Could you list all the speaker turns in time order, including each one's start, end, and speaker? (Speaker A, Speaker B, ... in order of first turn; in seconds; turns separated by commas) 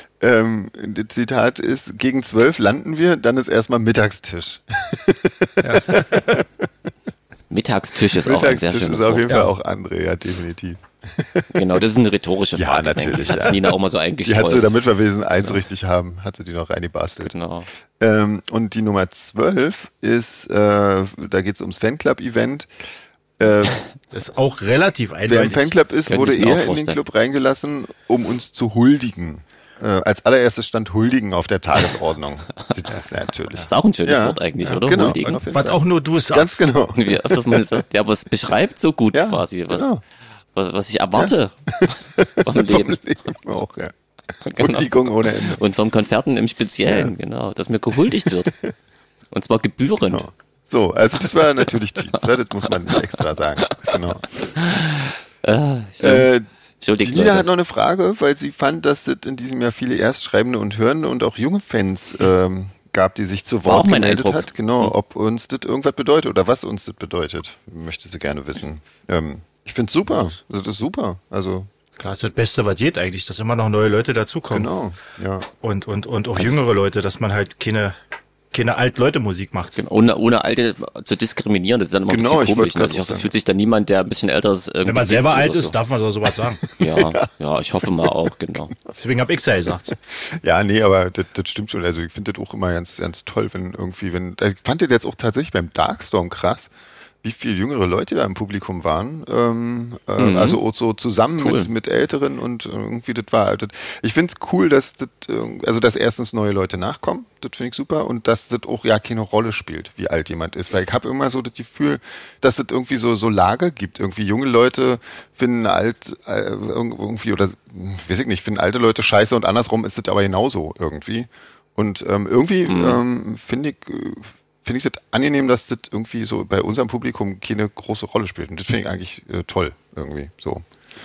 Speaker A: 0.2-6.7, Speaker B: 5.6-6.4, Speaker C: 7.5-9.3, Speaker A: 8.0-11.6, Speaker C: 11.5-14.8, Speaker A: 12.5-17.4, Speaker C: 17.2-17.7, Speaker A: 18.0-22.7, Speaker A: 23.4-23.8, Speaker B: 24.1-25.7, Speaker A: 25.3-37.8, Speaker C: 26.1-27.0, Speaker C: 33.7-35.5, Speaker B: 35.5-36.7, Speaker C: 37.0-40.0, Speaker A: 39.1-40.0, Speaker C: 40.5-43.0, Speaker A: 41.1-43.9, Speaker C: 44.5-48.6, Speaker A: 44.6-45.6, Speaker A: 46.9-47.1, Speaker C: 49.3-50.2, Speaker A: 50.1-54.3, Speaker C: 53.6-54.0, Speaker C: 54.5-57.5, Speaker A: 56.0-56.5, Speaker A: 57.0-71.7, Speaker C: 63.7-64.9, Speaker B: 72.0-74.7, Speaker A: 74.5-75.5, Speaker B: 75.6-78.0, Speaker B: 78.5-79.8, Speaker C: 79.8-85.8, Speaker A: 82.1-83.3, Speaker B: 84.8-86.6, Speaker A: 86.8-87.3, Speaker C: 86.8-88.7, Speaker B: 89.0-90.0, Speaker A: 90.1-96.7, Speaker A: 97.2-130.7, Speaker C: 100.2-100.6, Speaker C: 101.4-101.7, Speaker C: 122.7-123.0